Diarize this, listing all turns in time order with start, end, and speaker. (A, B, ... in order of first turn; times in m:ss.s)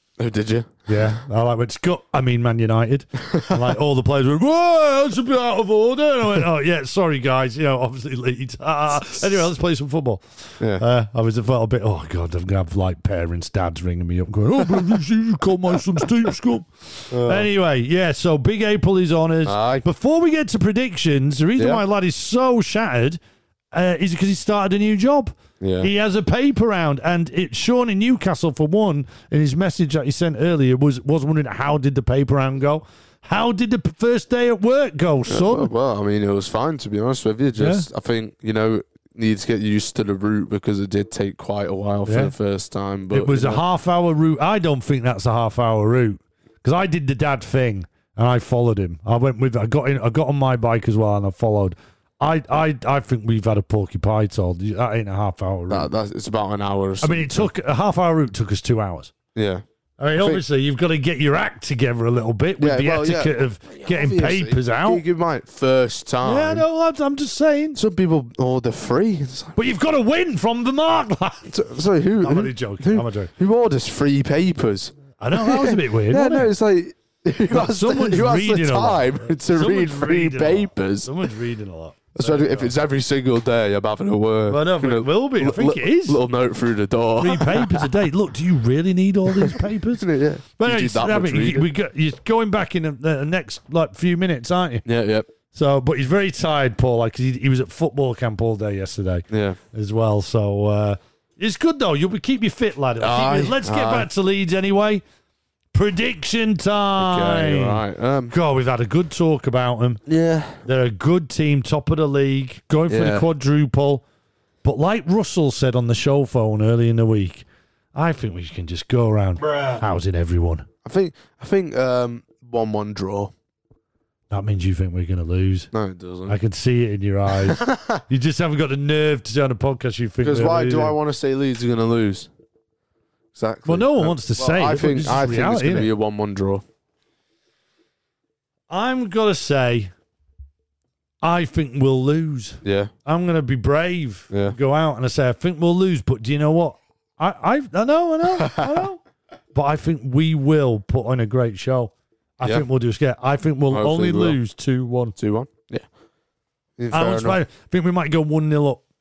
0:00.2-0:01.1 A
0:00.9-0:10.2 B
0:10.8-0:23.2 B
0:17.1-0:17.5 A
0:19.4-0:19.8 A
0:21.6-0:21.8 A
0:23.7-0:35.7 B
0:25.6-0:25.9 A
0:35.3-0:43.6 A
0:37.6-0:37.9 B
0:42.1-0:42.3 B
0:43.1-0:55.9 B
0:55.7-0:57.5 A
0:57.0-0:59.1 B
0:59.4-1:00.4 A
1:00.0-1:05.0 B
1:02.6-1:06.6 A
1:06.2-1:07.8 B
1:07.8-1:09.6 A
1:09.6-1:11.5 B
1:11.5-1:21.3 A
1:12.2-1:13.3 B
1:15.2-1:16.5 B
1:17.5-1:22.7 B
1:22.2-1:28.0 A
1:24.5-1:26.2 B
1:27.2-1:30.0 B
1:29.3-1:31.7 A
1:30.6-1:34.8 B
1:34.8-1:35.3 A
1:35.5-1:45.0 B
1:39.3-1:39.6 A
1:43.0-1:44.1 A
1:45.7-1:50.0 B
1:47.0-1:48.3 A
1:50.1-1:50.6 A
1:50.6-1:54.0 B
1:52.9-1:53.3 A
1:54.6-2:00.7 B
2:00.8-2:03.3 A
2:04.3-2:05.7 B
2:05.7-2:06.4 A
2:06.3-2:11.0 B
2:07.4-2:08.0 A
2:10.2-2:12.3 A
2:13.3-2:16.6 A
2:13.7-2:15.9 B
2:18.7-2:19.9 B
2:21.2-2:29.0 B
2:22.6-2:22.9 A
2:24.3-2:24.6 A
2:28.3-2:28.8 A
2:29.5-2:35.2 B
2:33.7-2:34.4 A
2:35.2-2:35.9 A
2:36.8-2:37.4 A
2:36.9-2:38.8 B